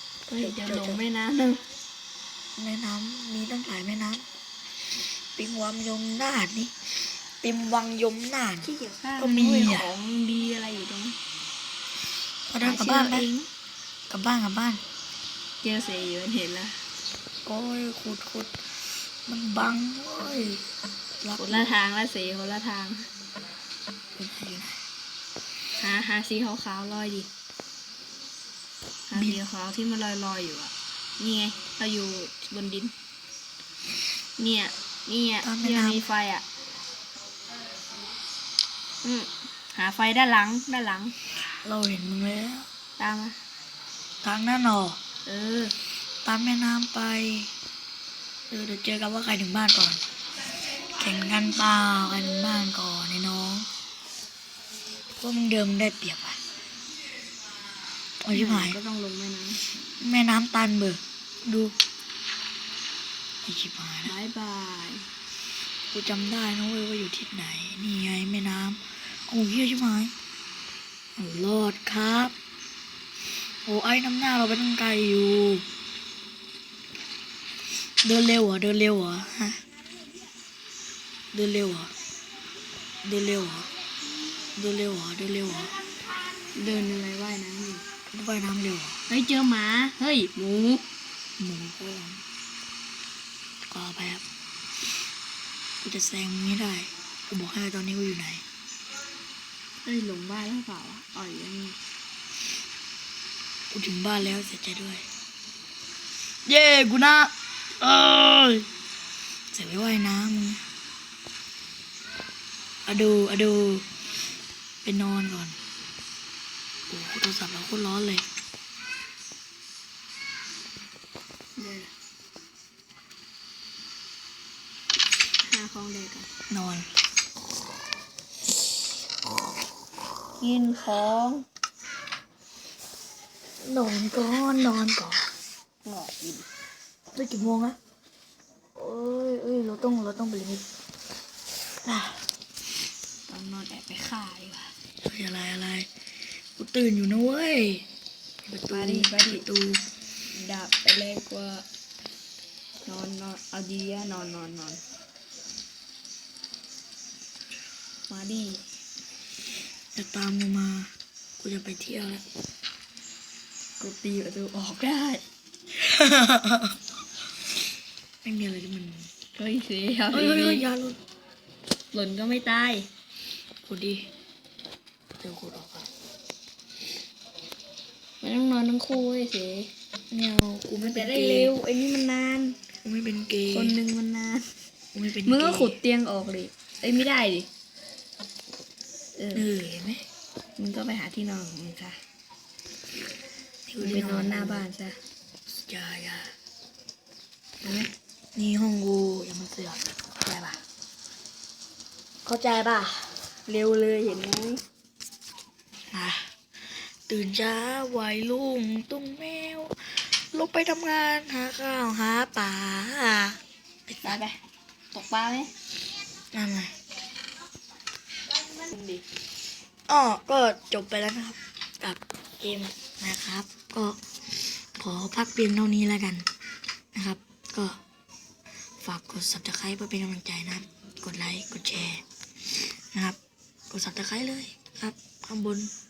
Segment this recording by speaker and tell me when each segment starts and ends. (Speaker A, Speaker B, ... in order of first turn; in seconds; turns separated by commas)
Speaker A: 0.3-1.0, Speaker B: 0.3-1.6, Speaker A: 2.6-4.3, Speaker A: 4.9-9.9, Speaker B: 8.6-11.2, Speaker A: 12.5-13.3, Speaker B: 12.6-13.5, Speaker A: 14.1-14.8, Speaker B: 15.6-16.8, Speaker A: 17.4-20.7, Speaker A: 21.2-21.8, Speaker B: 21.4-23.1, Speaker A: 24.2-24.8, Speaker B: 25.8-27.3, Speaker B: 29.1-32.9, Speaker A: 29.1-29.4, Speaker B: 34.4-36.5, Speaker A: 35.4-36.0, Speaker B: 39.0-41.2, Speaker A: 41.6-42.7, Speaker B: 43.0-43.4, Speaker A: 44.2-45.0, Speaker B: 45.2-45.8, Speaker A: 46.0-47.5, Speaker A: 48.5-53.7, Speaker A: 55.2-56.4, Speaker A: 58.2-58.8, Speaker B: 58.3-59.6, Speaker A: 60.0-61.8, Speaker A: 63.4-64.2, Speaker B: 64.1-65.1, Speaker A: 65.9-70.1, Speaker A: 71.2-72.3, Speaker A: 73.4-75.7, Speaker A: 77.7-79.7, Speaker A: 81.3-81.9, Speaker A: 83.0-83.7, Speaker A: 84.5-85.8, Speaker B: 86.5-87.8, Speaker A: 88.1-89.0, Speaker B: 89.1-90.9, Speaker A: 91.4-92.2, Speaker A: 93.6-94.2, Speaker A: 95.8-98.4, Speaker B: 99.8-101.8, Speaker A: 103.7-105.1, Speaker A: 106.3-108.7, Speaker A: 109.5-110.7, Speaker A: 112.9-114.0, Speaker A: 114.8-115.6, Speaker A: 116.9-118.3, Speaker B: 121.6-121.9, Speaker B: 125.4-126.3, Speaker A: 126.5-126.9, Speaker B: 130.4-131.4, Speaker A: 133.6-135.3, Speaker B: 135.8-136.5, Speaker A: 137.1-137.8, Speaker A: 138.8-140.7, Speaker A: 141.8-142.3, Speaker B: 143.3-144.7, Speaker A: 145.0-147.9, Speaker A: 148.4-149.8, Speaker B: 148.7-149.5, Speaker B: 150.3-151.7, Speaker B: 152.8-154.8, Speaker B: 158.1-158.6, Speaker A: 159.9-162.2, Speaker B: 163.8-165.2, Speaker A: 165.7-166.8, Speaker A: 168.2-169.1, Speaker B: 169.3-170.7, Speaker A: 170.1-171.0, Speaker B: 171.9-172.9, Speaker A: 173.7-174.1, Speaker A: 175.2-175.9, Speaker B: 178.2-179.7, Speaker A: 180.1-181.5, Speaker B: 180.8-182.6, Speaker A: 182.8-183.8, Speaker B: 183.5-184.5, Speaker A: 184.9-185.8, Speaker B: 185.2-187.5, Speaker B: 189.2-189.4, Speaker A: 189.3-190.0, Speaker B: 190.6-192.0, Speaker A: 193.7-194.7, Speaker B: 193.8-195.0, Speaker A: 195.5-196.3, Speaker B: 197.6-197.9, Speaker A: 198.3-200.6, Speaker A: 202.2-203.3, Speaker B: 203.5-204.6, Speaker A: 205.9-214.2, Speaker B: 214.1-214.4, Speaker B: 214.9-215.5, Speaker A: 216.3-216.7, Speaker B: 218.5-219.0, Speaker A: 219.9-226.3, Speaker A: 226.9-227.8, Speaker A: 228.8-233.2, Speaker A: 233.7-235.7